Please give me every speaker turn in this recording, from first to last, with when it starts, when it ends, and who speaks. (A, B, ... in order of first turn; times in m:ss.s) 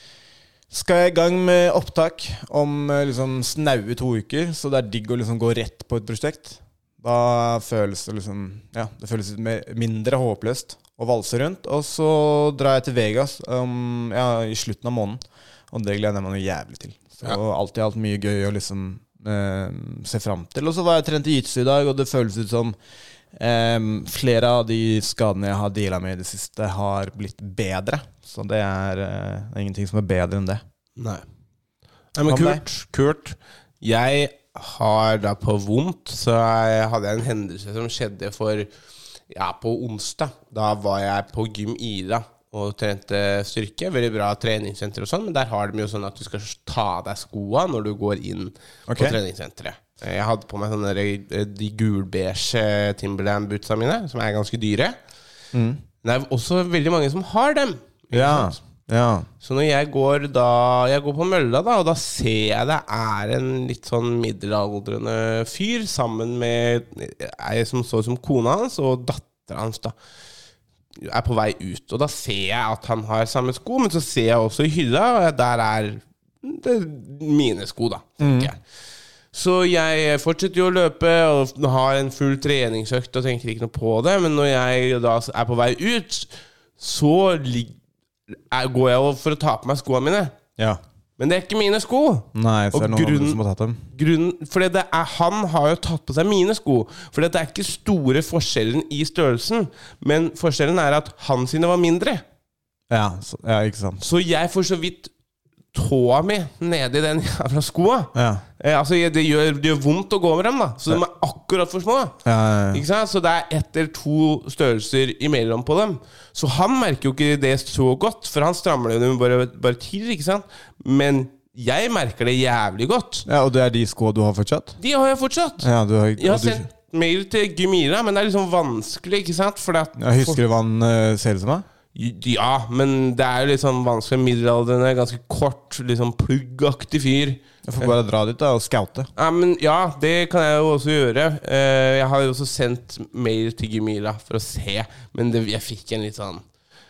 0:00.7-0:22.8 A
0:23.4-0:30.6 A
0:31.0-0:31.2 B
0:32.1-0:38.7 B
0:32.2-0:32.6 A
0:39.3-0:55.0 B
0:48.9-0:49.2 A
0:55.5-0:55.8 A
0:56.0-0:58.6 B
0:58.1-0:59.3 A
0:59.4-1:10.0 B
1:11.0-1:18.6 B
1:18.2-1:18.5 A
1:19.3-1:27.8 B
1:28.5-1:30.3 B
1:31.2-1:33.4 B
1:32.3-1:33.8 A
1:33.9-1:42.2 B
1:42.9-1:44.0 A
1:44.0-1:45.1 B
1:45.7-1:52.1 B
1:48.1-1:48.4 A
1:52.2-1:52.8 A
1:52.7-2:03.2 B
2:03.2-2:04.8 A
2:04.8-2:10.4 B
2:05.6-2:06.6 A
2:10.0-2:11.6 A
2:11.9-2:17.9 B
2:17.6-2:19.1 A
2:19.2-2:26.4 B